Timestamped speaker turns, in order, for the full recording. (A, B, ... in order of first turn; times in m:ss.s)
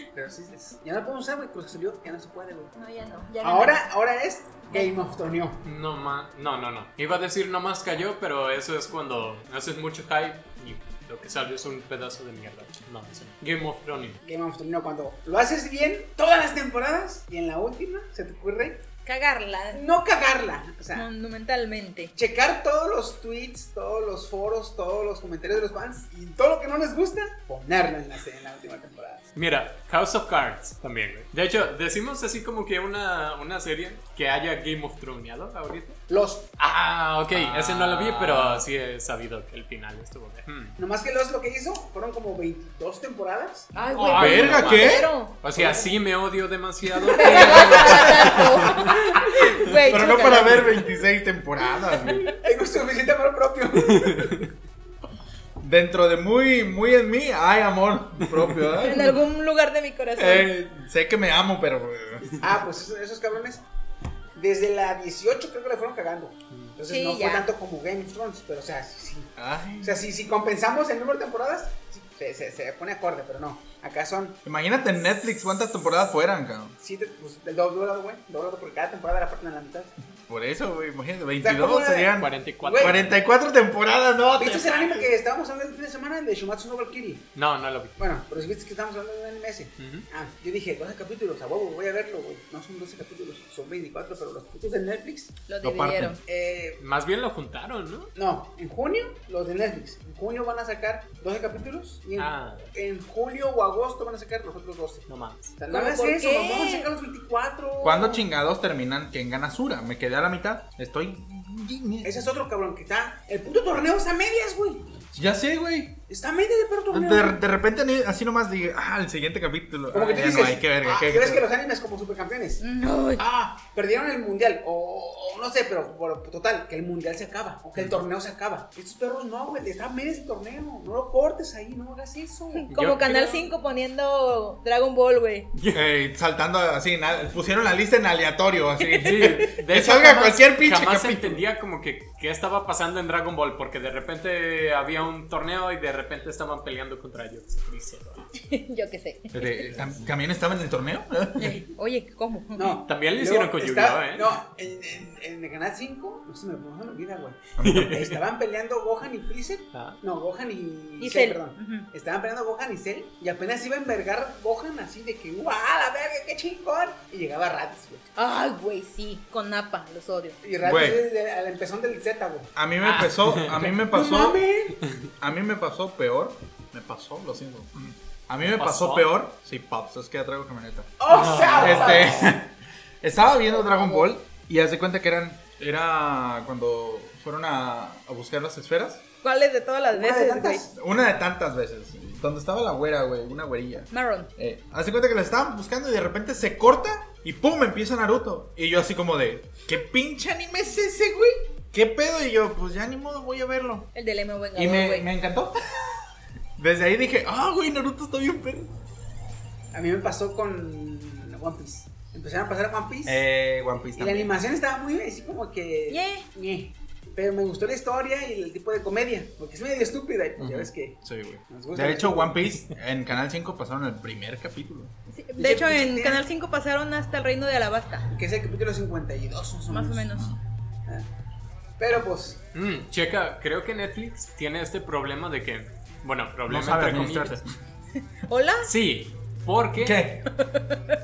0:00.1-0:02.7 A
0:02.8-0:03.8 B
0:03.4-0:05.6 A
0:05.6-0:14.2 C
0:14.2-0:18.8 A
0:19.0-0:19.8 B
0:19.7-0:21.1 A
0:20.9-0:22.1 B
0:22.1-0:29.2 A
0:29.3-0:36.0 C
0:36.1-0:36.5 A
0:36.6-0:40.8 C
0:37.3-0:38.6 D
0:40.8-0:43.7 A
0:43.7-0:46.0 B
0:44.0-0:48.9 C
0:44.1-0:45.1 D
0:47.1-0:50.8 B
0:47.2-0:47.7 A
0:47.7-0:48.2 D
0:48.7-0:49.2 A
0:49.9-0:52.3 D
0:52.4-0:54.5 A
0:53.9-0:54.4 C
0:55.6-0:59.2 D
0:58.8-1:00.5 B
1:00.2-1:02.4 D
1:02.4-1:03.6 A
1:04.4-1:14.4 A
1:06.9-1:07.5 B
1:09.4-1:10.1 D
1:14.4-1:16.8 D
1:16.8-1:19.9 A
1:20.3-1:25.1 D
1:21.4-1:23.0 A
1:22.2-1:23.1 C
1:24.3-1:27.3 A
1:27.3-1:28.0 C
1:28.0-1:35.4 A
1:29.8-1:30.1 C
1:35.5-1:36.2 B
1:35.6-1:36.2 D
1:36.2-1:36.8 A
1:36.8-1:38.1 C
1:38.1-1:48.2 A
1:42.2-1:42.7 C
1:45.1-1:45.6 C
1:45.7-1:46.9 B
1:47.8-1:52.1 D
1:52.0-1:55.0 A
1:55.1-1:56.0 D
1:56.1-1:57.4 A
1:56.9-2:01.4 D
1:59.9-2:02.6 A
2:02.6-2:03.2 B
2:03.2-2:12.7 A
2:12.6-2:15.5 B
2:12.7-2:13.5 C
2:15.5-2:15.8 C
2:15.7-2:21.4 D
2:18.9-2:19.3 B
2:19.0-2:28.3 C
2:28.4-2:29.6 B
2:29.3-2:31.6 D
2:31.4-2:32.8 B
2:32.6-2:48.1 A
2:32.9-2:34.4 C
2:37.6-2:37.9 D
2:37.6-2:38.2 C
2:39.7-2:40.0 C
2:41.0-2:41.9 B
2:48.2-2:50.4 B
2:50.4-2:52.5 A
2:50.6-2:51.0 D
2:52.6-2:54.4 D
2:52.8-2:53.7 C
2:53.5-2:54.8 A
2:55.2-3:09.0 D
2:58.4-2:59.1 C
3:01.0-3:02.4 A
3:01.1-3:02.1 C
3:03.4-3:04.1 B
3:09.2-3:10.6 B
3:09.9-3:10.8 A
3:10.7-3:23.9 D
3:13.9-3:14.3 B
3:23.9-3:25.1 B
3:24.5-3:26.0 D
3:26.6-3:28.7 D
3:29.7-3:33.2 A
3:33.0-3:34.3 D
3:34.0-3:42.4 A
3:35.9-3:36.2 B
3:40.4-3:44.9 D
3:45.1-3:48.1 B
3:45.4-3:46.2 A
3:48.1-3:50.1 A
3:49.7-3:50.3 B
3:51.8-3:52.4 A
3:52.5-3:57.4 C
3:56.5-3:57.6 D
3:58.2-3:58.7 B
3:58.6-4:00.1 C
3:59.8-4:00.3 D
4:00.4-4:00.8 B